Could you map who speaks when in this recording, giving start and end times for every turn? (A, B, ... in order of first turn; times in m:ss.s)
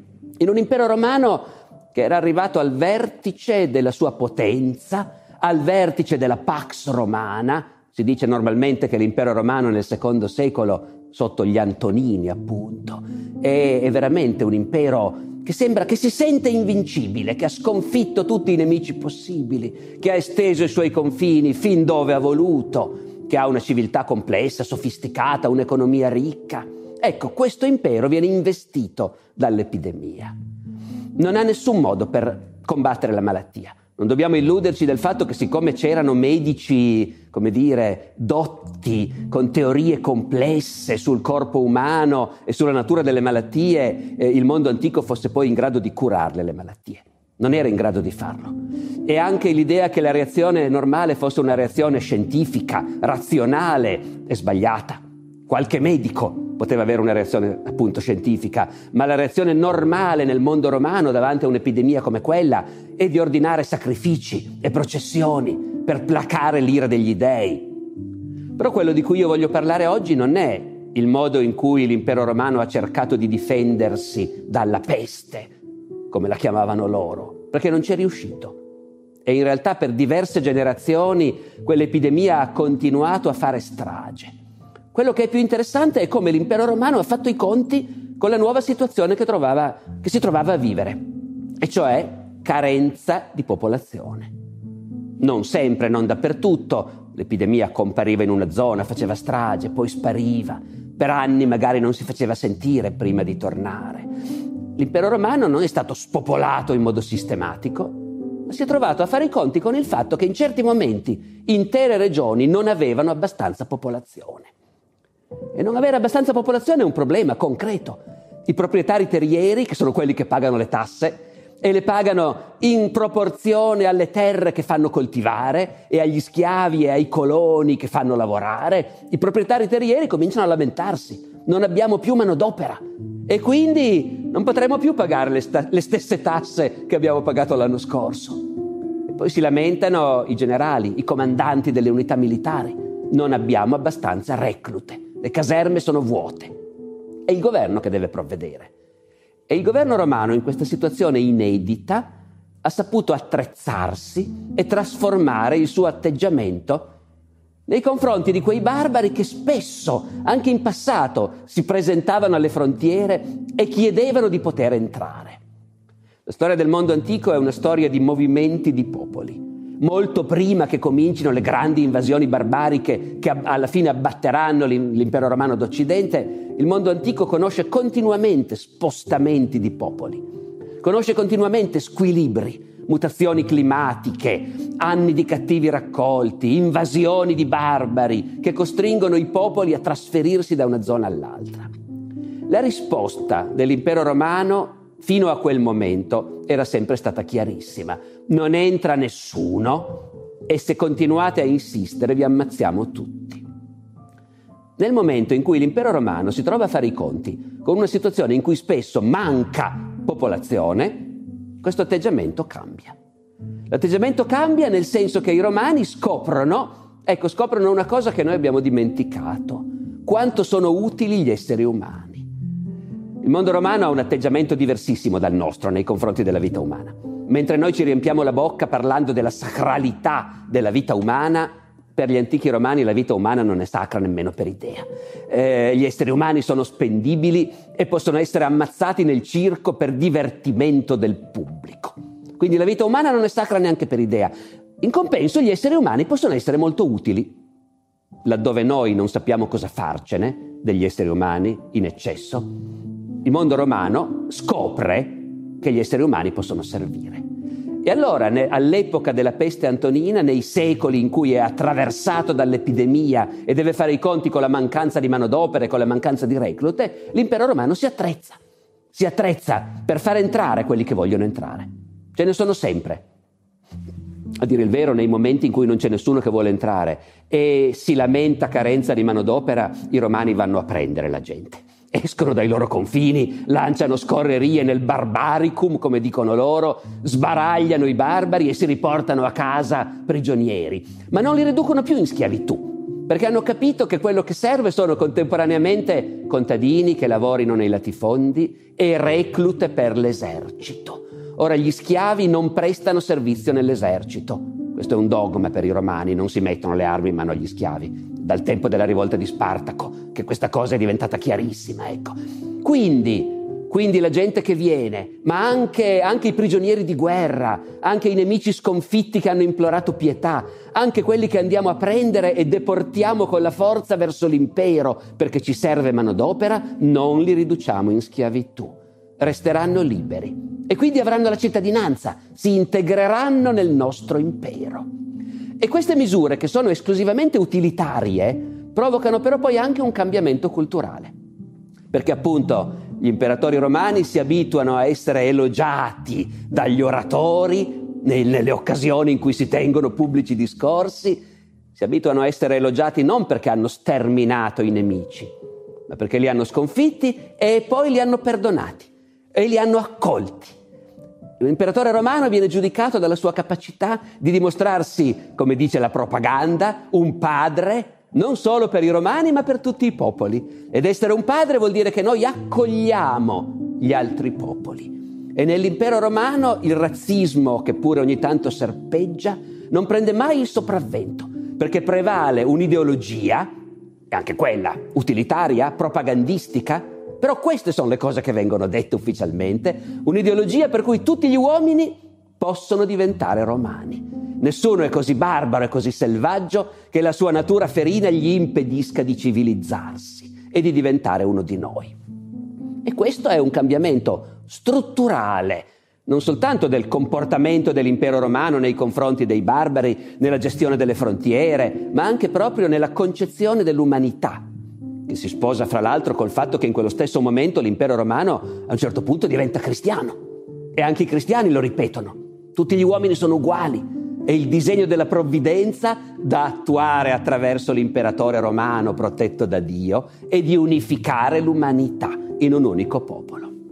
0:00.4-0:30.3 A
0:31.2-1:07.8 A
1:08.6-1:15.5 A
1:16.1-1:18.6 A
1:19.2-1:24.3 A
1:24.9-1:31.0 A
1:31.6-1:34.3 A
1:35.2-1:44.1 A
1:44.8-1:54.5 A
1:55.5-2:18.4 A
2:19.1-2:26.5 A
2:27.2-2:28.7 A
2:29.5-2:36.9 A
2:37.7-2:45.4 A
2:46.2-3:00.2 A
3:00.8-3:11.7 A
3:12.5-3:23.4 A
3:24.8-3:33.0 A
3:33.7-3:42.2 A
3:43.2-4:07.4 A
4:08.2-4:12.5 A
4:13.2-4:17.2 A
4:17.8-4:28.4 A
4:28.9-4:33.0 A
4:34.4-5:34.9 A
5:35.6-5:41.1 A
5:41.9-5:51.2 A
5:51.7-5:55.3 A
5:55.9-6:00.5 A
6:01.4-6:23.5 A
6:24.1-6:42.0 A
6:42.8-6:54.4 A
6:55.1-7:00.2 A
7:00.8-7:13.5 A